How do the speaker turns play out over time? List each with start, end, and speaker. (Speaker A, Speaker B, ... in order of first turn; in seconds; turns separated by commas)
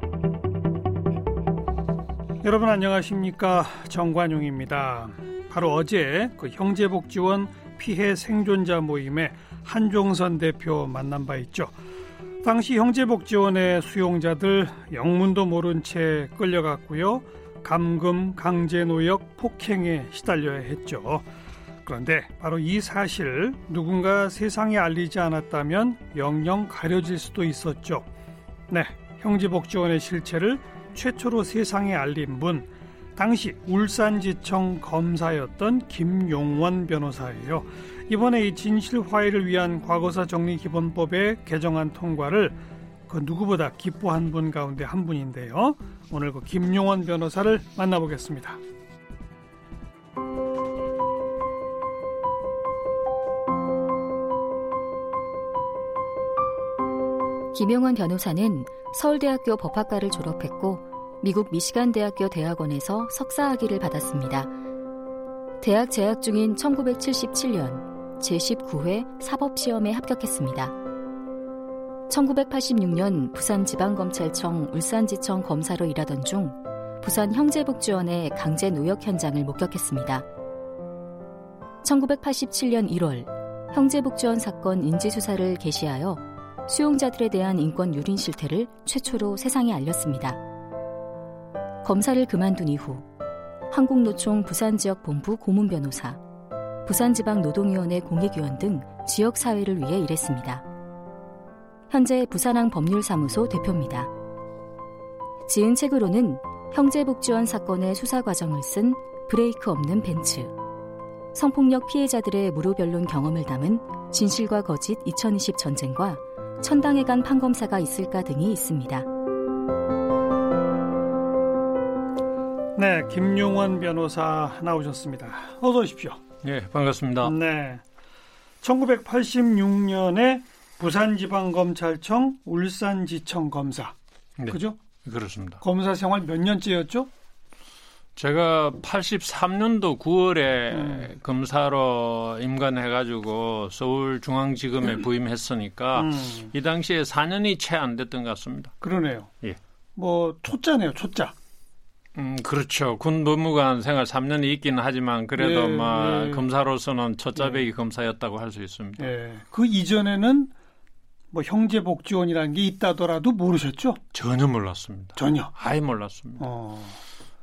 Speaker A: 2.4-11.7, Speaker A: 12.4-21.2, Speaker A: 21.8-28.1, Speaker A: 28.7-48.6, Speaker B: 57.5-64.5, Speaker B: 65.6-70.7, Speaker B: 72.1-80.2, Speaker B: 81.8-90.4, Speaker B: 91.8-93.0, Speaker B: 93.7-96.2, Speaker B: 96.8-100.6, Speaker B: 101.9-104.1, Speaker B: 105.5-110.5, Speaker B: 111.3-119.1, Speaker A: 122.8-126.2, Speaker C: 126.4-127.3, Speaker A: 127.2-127.8, Speaker A: 128.6-133.9, Speaker C: 134.4-135.6, Speaker A: 134.5-134.8, Speaker A: 135.6-137.1, Speaker C: 138.2-148.7, Speaker A: 140.7-141.1, Speaker A: 145.9-146.5, Speaker A: 148.8-149.3, Speaker A: 149.9-151.3, Speaker C: 152.1-159.1, Speaker A: 155.3-156.5, Speaker A: 157.3-157.6, Speaker A: 159.0-160.5, Speaker A: 161.3-164.0, Speaker C: 164.1-166.4, Speaker A: 165.2-165.5, Speaker A: 166.4-167.0